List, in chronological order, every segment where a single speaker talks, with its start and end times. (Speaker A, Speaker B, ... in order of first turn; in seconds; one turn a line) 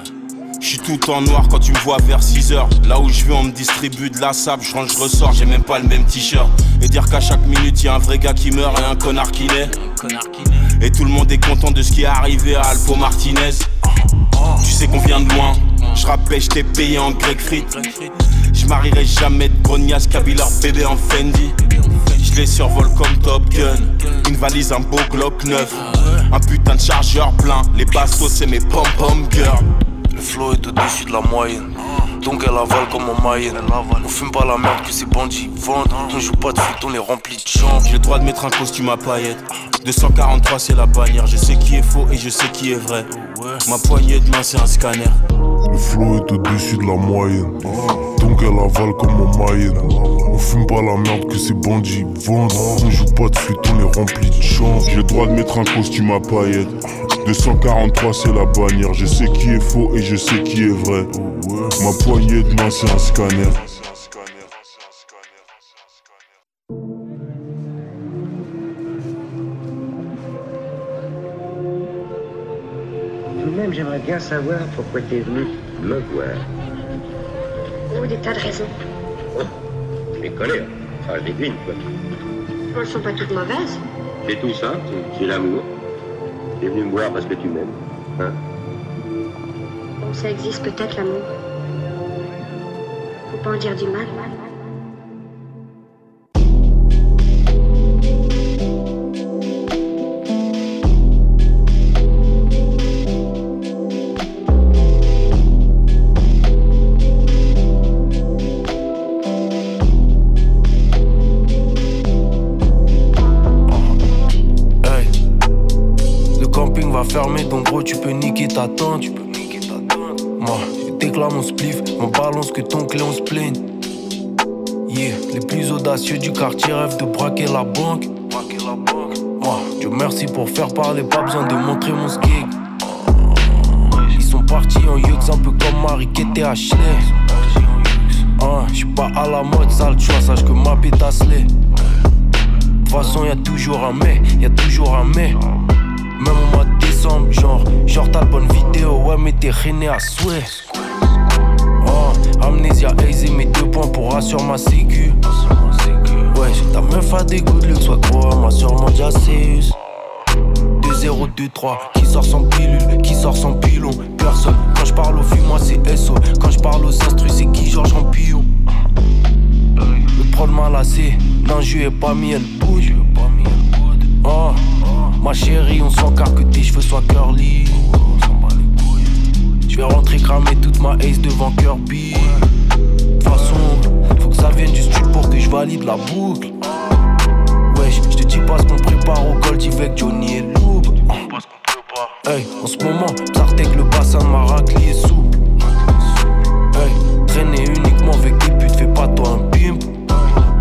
Speaker A: 0.6-9.7
Speaker A: 10.8-13.6
Speaker A: 14.6-17.7
Speaker A: 18.5-21.5
Speaker A: 22.1-29.6
Speaker B: 25.5-26.3
Speaker B: 30.1-37.9
Speaker A: 37.8-43.1
Speaker B: 43.1-43.7
Speaker A: 43.6-45.2
Speaker C: 45.7-64.5
Speaker D: 73.4-76.4
Speaker E: 77.9-78.7
Speaker D: 80.2-81.8
Speaker E: 82.7-83.8
Speaker D: 84.2-85.6
Speaker D: 86.6-88.3
Speaker E: 90.0-91.3
Speaker E: 93.3-94.3
Speaker B: 113.7-113.9
Speaker B: 114.8-115.1
Speaker B: 116.3-123.6
Speaker B: 124.9-141.9
Speaker B: 142.8-145.4
Speaker B: 146.2-150.7
Speaker B: 151.8-155.5
Speaker B: 156.2-159.8
Speaker B: 160.8-168.5
Speaker B: 170.0-179.1
Speaker B: 179.7-182.5
Speaker B: 183.2-186.5
Speaker B: 187.7-195.3
Speaker B: 196.7-200.3